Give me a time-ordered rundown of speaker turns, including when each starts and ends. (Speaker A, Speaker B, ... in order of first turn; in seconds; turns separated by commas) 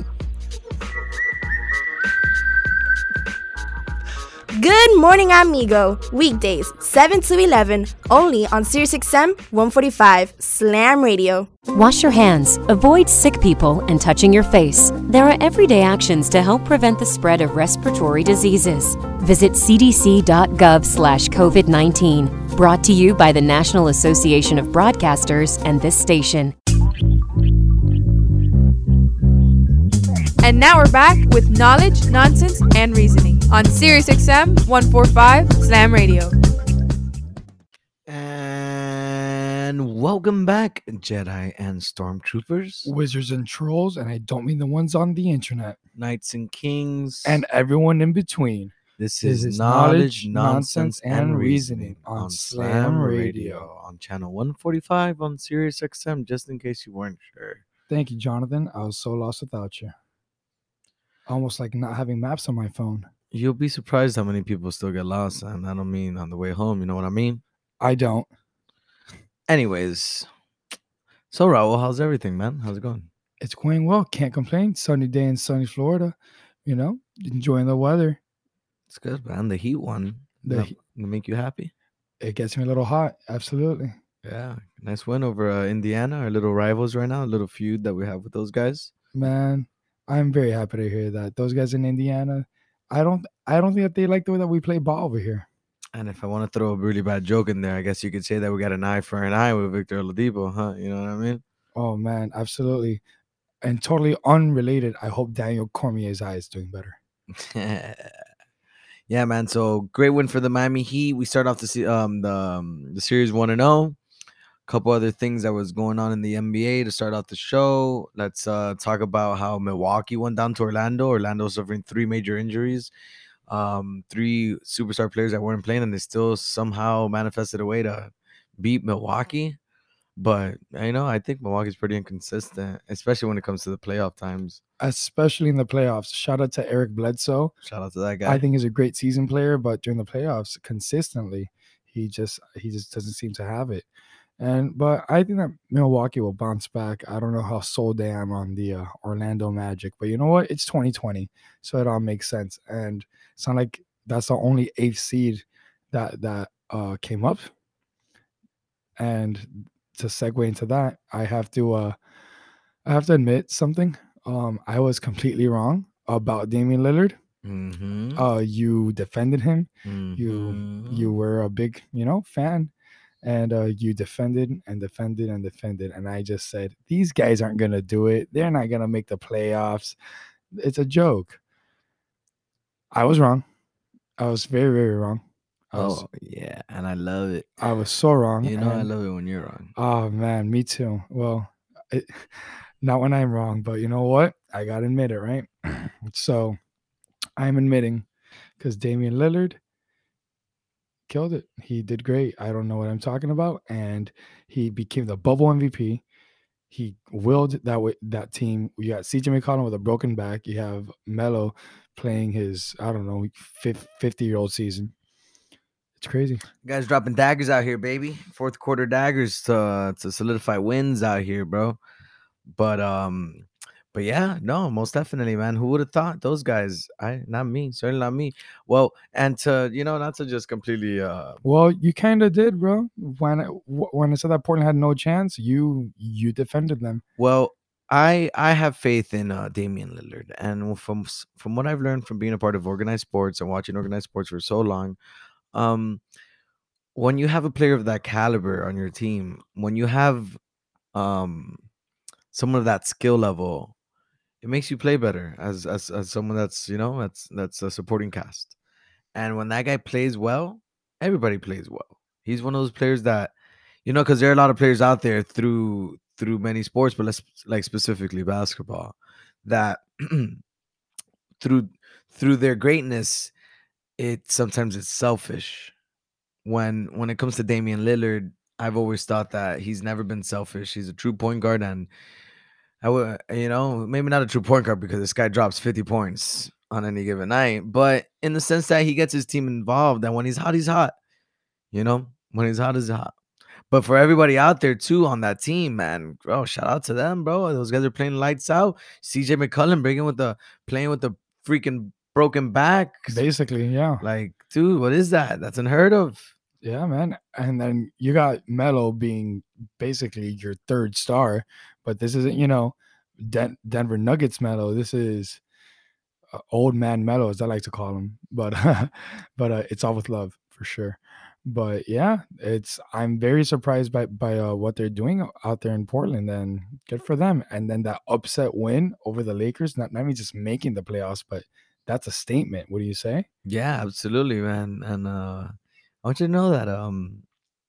Speaker A: 4.5-11.5, Speaker B: 11.7-26.5, Speaker C: 30.4-36.3, Speaker D: 38.1-42.9, Speaker E: 42.8-45.8, Speaker D: 46.0-47.4, Speaker E: 47.2-53.7, Speaker D: 49.0-57.6, Speaker E: 57.9-59.9, Speaker E: 61.3-63.1, Speaker D: 63.3-67.4, Speaker E: 67.8-68.3, Speaker D: 69.5-70.3, Speaker D: 71.3-73.1, Speaker E: 73.4-78.2, Speaker D: 78.9-81.7, Speaker E: 80.4-80.7, Speaker E: 82.2-83.9, Speaker D: 84.2-88.9, Speaker E: 89.1-95.5, Speaker D: 95.9-101.4, Speaker E: 101.7-103.0, Speaker E: 103.6-107.0, Speaker D: 107.3-108.2, Speaker D: 109.1-114.0, Speaker D: 114.7-122.9, Speaker D: 123.5-129.6, Speaker D: 130.2-134.6, Speaker E: 134.8-137.5, Speaker D: 137.6-138.4, Speaker E: 138.2-143.8, Speaker E: 144.4-157.5, Speaker E: 159.0-161.9, Speaker E: 162.8-167.2, Speaker D: 167.4-168.2, Speaker E: 168.2-172.7, Speaker D: 169.8-171.1, Speaker E: 173.2-179.9, Speaker E: 180.5-181.4, Speaker E: 182.9-183.4, Speaker E: 184.2-186.1, Speaker D: 185.8-187.5, Speaker E: 187.6-188.9, Speaker D: 188.4-189.7, Speaker E: 189.8-196.6, Speaker E: 197.4-198.1, Speaker E: 198.6-199.6, Speaker E: 201.1-206.0, Speaker E: 206.7-214.9, Speaker E: 216.0-216.4, Speaker D: 216.6-221.8, Speaker D: 222.5-231.4, Speaker E: 231.4-237.0, Speaker D: 237.2-245.0, Speaker D: 245.5-246.0, Speaker D: 246.9-250.4, Speaker D: 250.9-251.6, Speaker D: 252.3-253.7, Speaker D: 254.4-258.5, Speaker D: 259.1-263.3, Speaker D: 263.8-270.4, Speaker D: 271.4-273.3, Speaker D: 274.0-275.7, Speaker D: 276.4-281.9, Speaker D: 282.8-290.9, Speaker D: 291.7-293.1, Speaker D: 293.7-303.2, Speaker E: 303.1-304.0, Speaker D: 304.0-306.3, Speaker E: 306.6-315.4, Speaker E: 316.3-333.2, Speaker D: 333.4-337.2